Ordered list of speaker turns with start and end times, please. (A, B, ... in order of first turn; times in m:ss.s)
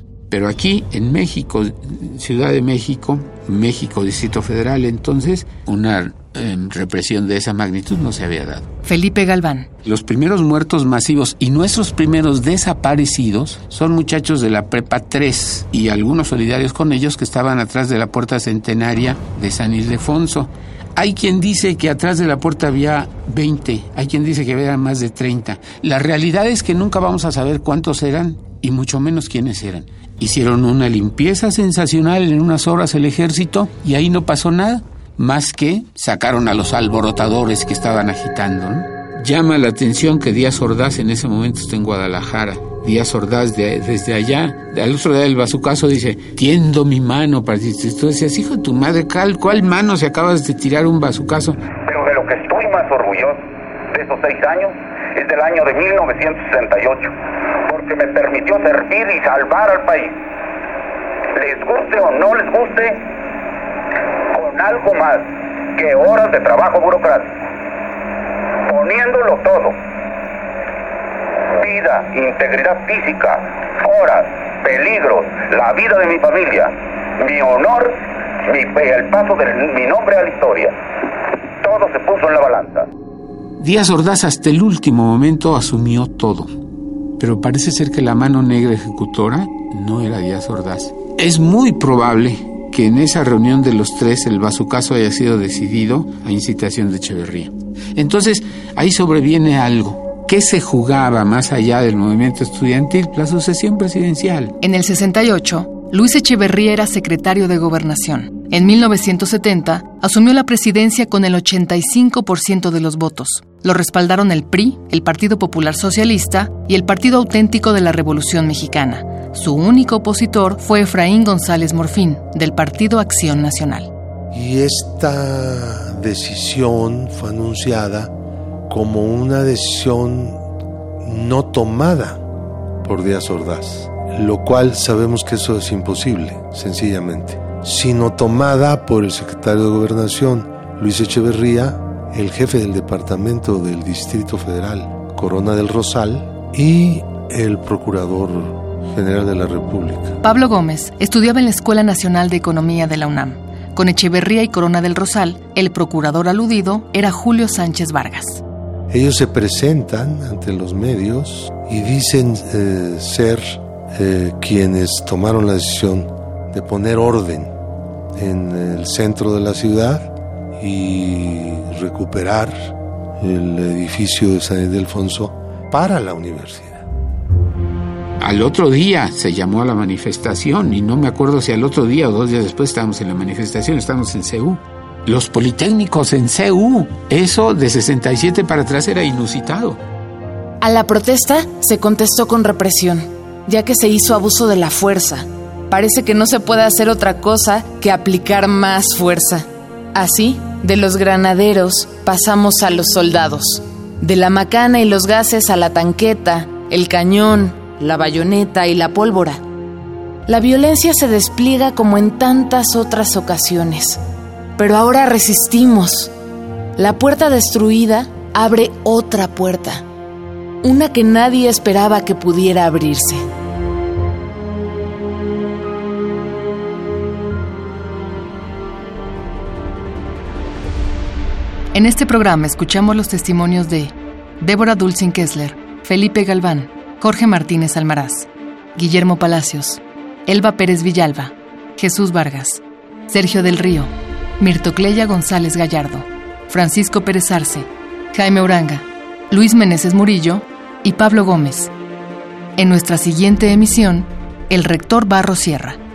0:00.3-0:08.6 A
0:08.8-0:09.7 B
0:09.8-0:51.6 A
0:51.8-0:53.4 C
0:53.9-1:00.2 C
1:01.3-1:03.0 C
1:04.3-1:07.4 C
1:08.6-1:09.8 C
1:11.5-1:20.7 C
1:21.6-1:22.9 C
1:23.6-1:26.5 A
1:27.2-1:44.5 A
1:44.6-2:03.9 B
2:04.3-2:08.1 D
2:08.7-2:10.4 D
2:11.0-2:12.2 D
2:12.8-2:30.2 D
2:30.2-2:38.4 B
2:38.9-2:47.5 D
2:48.2-2:56.8 D
2:58.2-3:09.8 A
3:10.6-3:29.4 E
3:30.3-3:34.0 E
3:34.6-3:36.1 E
3:36.8-3:39.8 E
3:40.6-3:43.2 E
3:51.7-4:11.7 B
4:12.6-4:15.8 B